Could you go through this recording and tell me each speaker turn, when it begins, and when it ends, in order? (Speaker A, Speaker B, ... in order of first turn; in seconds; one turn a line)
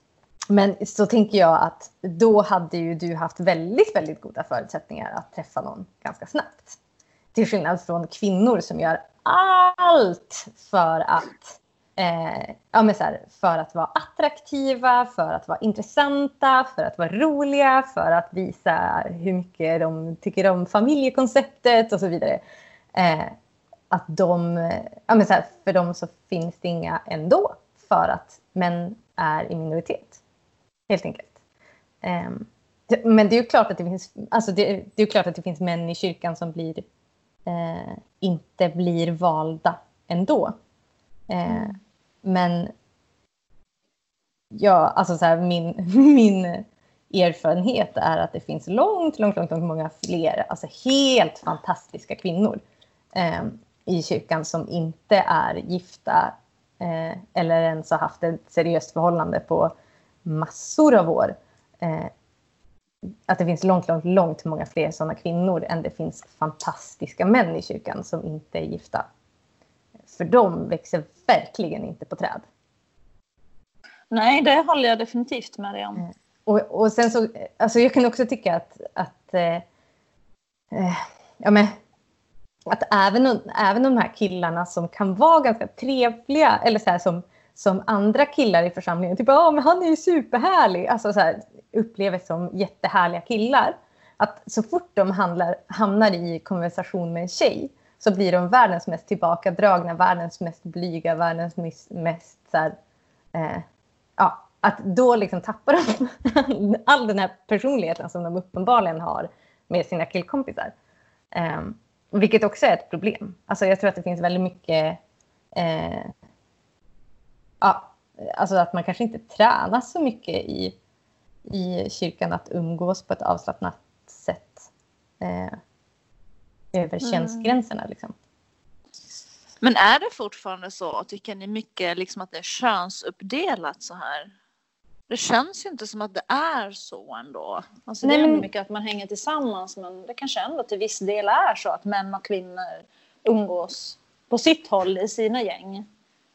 Speaker A: 0.5-6.8
Speaker A: 7.3-22.4
Speaker A: 22.9-23.3
Speaker A: 23.9-30.2
Speaker A: 30.9-31.3
Speaker A: 32.0-36.8
Speaker A: 37.5-40.5
Speaker A: 41.3-42.7
Speaker B: 41.5-41.8
Speaker A: 44.5-52.6
Speaker A: 53.1-59.7
Speaker A: 60.2-62.1
Speaker A: 63.3-69.0
Speaker A: 70.1-72.4
Speaker B: 74.1-76.0
Speaker A: 76.0-79.6
Speaker A: 80.7-81.8
Speaker A: 82.7-102.8
Speaker A: 103.3-103.6
Speaker A: 104.2-110.7
Speaker A: 111.3-115.0
Speaker A: 115.5-116.1
Speaker A: 117.6-120.7
Speaker A: 121.5-124.7
Speaker A: 125.2-125.6
Speaker A: 126.7-128.1
Speaker B: 127.0-127.5
Speaker B: 129.6-134.3
Speaker B: 135.1-145.9
Speaker A: 138.0-138.4